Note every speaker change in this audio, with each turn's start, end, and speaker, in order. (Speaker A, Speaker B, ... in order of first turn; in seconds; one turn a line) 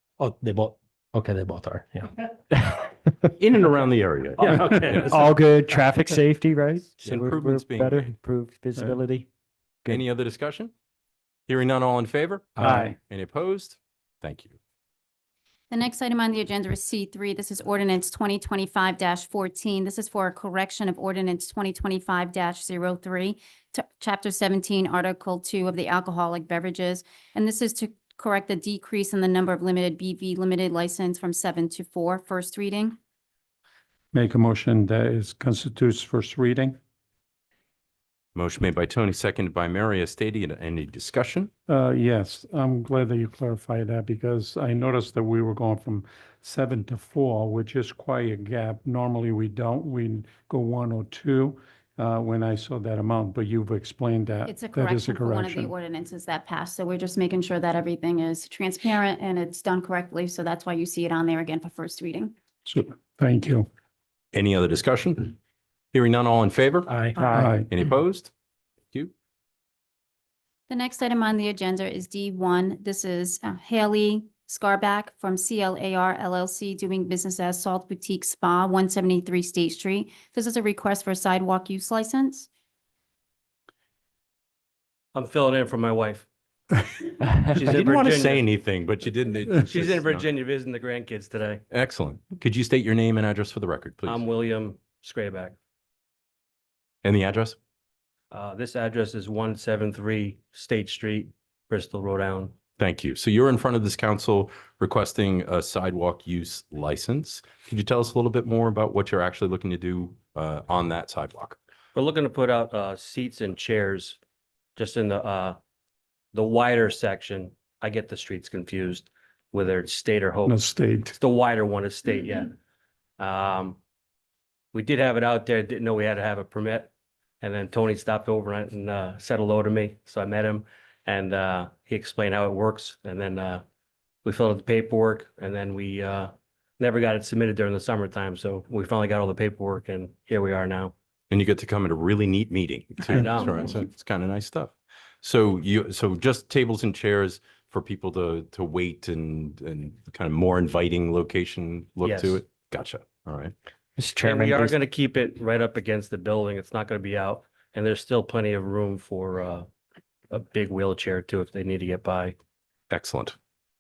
Speaker A: 0.2-2.1
Speaker B: 3.4-4.5
Speaker A: 4.4-5.3
Speaker C: 4.5-9.3
Speaker B: 7.0-8.2
Speaker B: 9.9-10.7
Speaker B: 11.5-14.6
Speaker A: 12.6-12.9
Speaker C: 12.6-12.9
Speaker D: 15.7-33.0
Speaker E: 34.1-36.8
Speaker B: 38.4-41.5
Speaker E: 41.7-55.7
Speaker D: 54.5-62.3
Speaker E: 62.7-63.7
Speaker B: 64.3-65.4
Speaker B: 65.9-66.9
Speaker A: 66.9-67.2
Speaker C: 67.2-67.5
Speaker E: 67.3-67.7
Speaker B: 67.7-68.3
Speaker D: 70.7-82.5
Speaker F: 85.1-86.3
Speaker F: 87.5-88.5
Speaker B: 87.6-90.3
Speaker F: 89.7-91.6
Speaker B: 91.7-94.2
Speaker F: 94.0-95.6
Speaker B: 97.0-97.6
Speaker F: 98.3-102.6
Speaker B: 102.8-111.6
Speaker F: 112.0-114.2
Speaker F: 114.8-115.6
Speaker F: 116.3-120.6
Speaker E: 120.5-121.1
Speaker F: 121.2-122.5
Speaker F: 123.2-123.8
Speaker F: 124.7-126.9
Speaker F: 127.4-133.6
Speaker F: 134.2-140.9
Speaker B: 141.3-153.5
Speaker F: 143.1-143.7
Speaker F: 152.0-152.4
Speaker C: 154.0-154.8
Speaker F: 154.2-159.7
Speaker F: 160.3-162.3
Speaker B: 162.9-163.3